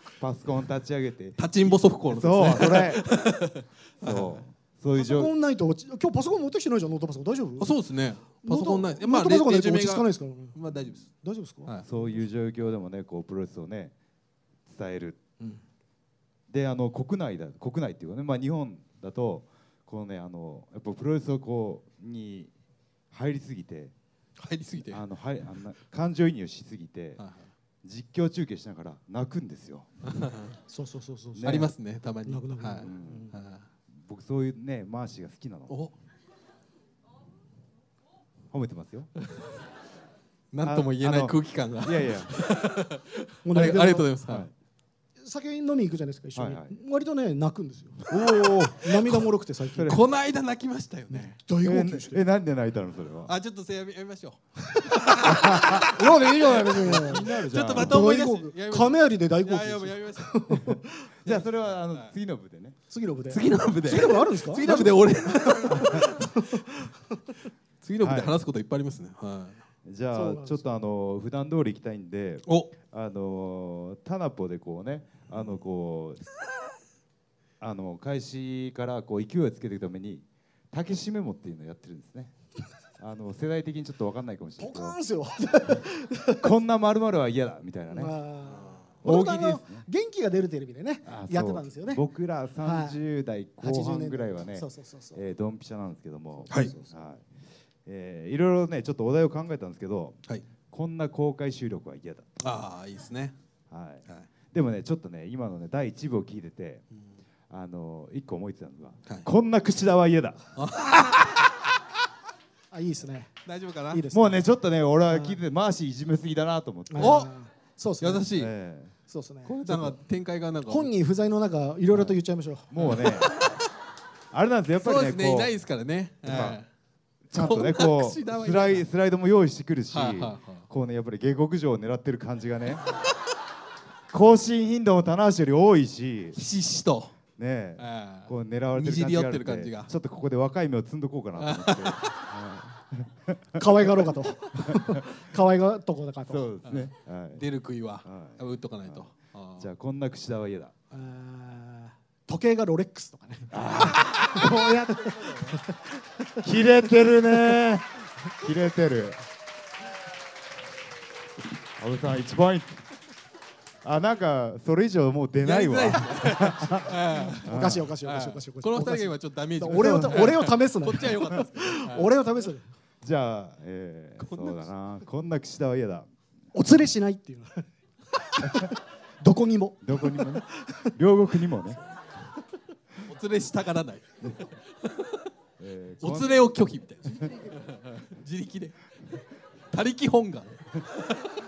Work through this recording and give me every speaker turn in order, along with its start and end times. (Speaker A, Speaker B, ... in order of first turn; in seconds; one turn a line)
Speaker A: 0.2-3.1
Speaker B: 1.4-4.4
Speaker A: 4.0-5.3
Speaker C: 4.9-7.7
Speaker B: 7.6-11.1
Speaker C: 8.4-10.6
Speaker C: 11.2-12.1
Speaker A: 11.8-13.9
Speaker A: 14.7-15.2
Speaker A: 16.5-22.5
Speaker A: 23.1-23.9
Speaker B: 24.4-25.0
Speaker A: 24.9-27.2
Speaker B: 27.2-27.5
Speaker A: 27.8-29.9
Speaker B: 30.1-30.6
Speaker C: 30.7-31.7
Speaker A: 31.4-31.7
Speaker B: 31.4-33.6
Speaker C: 32.2-33.3
Speaker A: 32.8-33.3
Speaker A: 34.0-35.7
Speaker B: 35.7-35.9
Speaker A: 38.5-39.1
Speaker B: 39.2-39.5
Speaker B: 40.5-44.5
Speaker A: 40.6-42.3
Speaker C: 43.4-44.1
Speaker C: 45.2-50.0
Speaker A: 46.4-46.7
Speaker A: 48.1-48.9
Speaker A: 49.7-50.0
Speaker B: 49.8-51.4
Speaker C: 51.1-52.2
Speaker A: 51.6-53.3
Speaker B: 53.3-56.0
Speaker C: 54.7-61.1
Speaker A: 55.2-58.0
Speaker B: 57.5-60.7
Speaker A: 61.2-62.8
Speaker B: 61.2-62.1
Speaker C: 62.9-67.2
Speaker B: 63.3-66.4
Speaker A: 65.7-66.1
Speaker B: 67.8-69.6
Speaker A: 68.0-68.4
Speaker A: 69.8-76.2
Speaker C: 70.1-70.7
Speaker B: 72.5-72.7
Speaker A: 77.6-82.3
Speaker A: 83.0-85.0
Speaker C: 84.6-86.5
Speaker A: 86.4-88.1
Speaker C: 87.9-92.0
Speaker B: 88.5-88.9
Speaker A: 89.0-89.8
Speaker A: 91.0-97.2
Speaker C: 92.6-93.0
Speaker C: 93.6-95.2
Speaker C: 96.4-97.0
Speaker A: 97.8-100.2
Speaker A: 100.7-102.3
Speaker B: 102.4-103.3
Speaker A: 103.7-106.8
Speaker A: 107.5-110.5
Speaker B: 110.5-111.5
Speaker C: 112.7-113.3
Speaker B: 113.5-114.0
Speaker C: 113.9-114.4
Speaker A: 114.1-117.2
Speaker C: 115.1-115.4
Speaker C: 116.9-118.3
Speaker B: 117.0-117.3
Speaker B: 118.0-118.5
Speaker A: 118.3-118.9
Speaker C: 119.1-119.6
Speaker A: 119.4-120.0
Speaker B: 119.6-120.9
Speaker C: 120.7-123.2
Speaker A: 121.9-122.2
Speaker A: 122.7-123.3
Speaker A: 124.3-125.5
Speaker B: 124.8-126.7
Speaker A: 126.2-126.6
Speaker A: 127.3-132.8
Speaker B: 127.3-128.8
Speaker B: 129.9-130.7
Speaker A: 134.1-136.4
Speaker B: 136.3-137.2
Speaker A: 137.4-143.7
Speaker B: 137.8-139.9
Speaker B: 141.4-142.2
Speaker C: 143.5-146.5
Speaker A: 144.7-145.0
Speaker A: 146.3-147.4
Speaker B: 146.6-149.7
Speaker A: 148.0-149.0
Speaker A: 149.6-150.7
Speaker C: 150.9-156.4
Speaker A: 153.5-155.4
Speaker B: 153.9-154.5
Speaker B: 155.1-155.6
Speaker A: 156.4-159.2
Speaker A: 161.8-162.8
Speaker A: 163.8-167.9
Speaker B: 165.4-172.2
Speaker C: 167.1-172.7
Speaker A: 169.8-170.3
Speaker A: 173.0-176.1
Speaker B: 174.2-174.6
Speaker C: 176.5-180.9
Speaker A: 178.4-178.7
Speaker A: 179.8-181.8
Speaker B: 183.0-185.3
Speaker A: 185.6-186.5
Speaker B: 186.0-189.2
Speaker C: 187.2-187.5
Speaker B: 189.7-191.3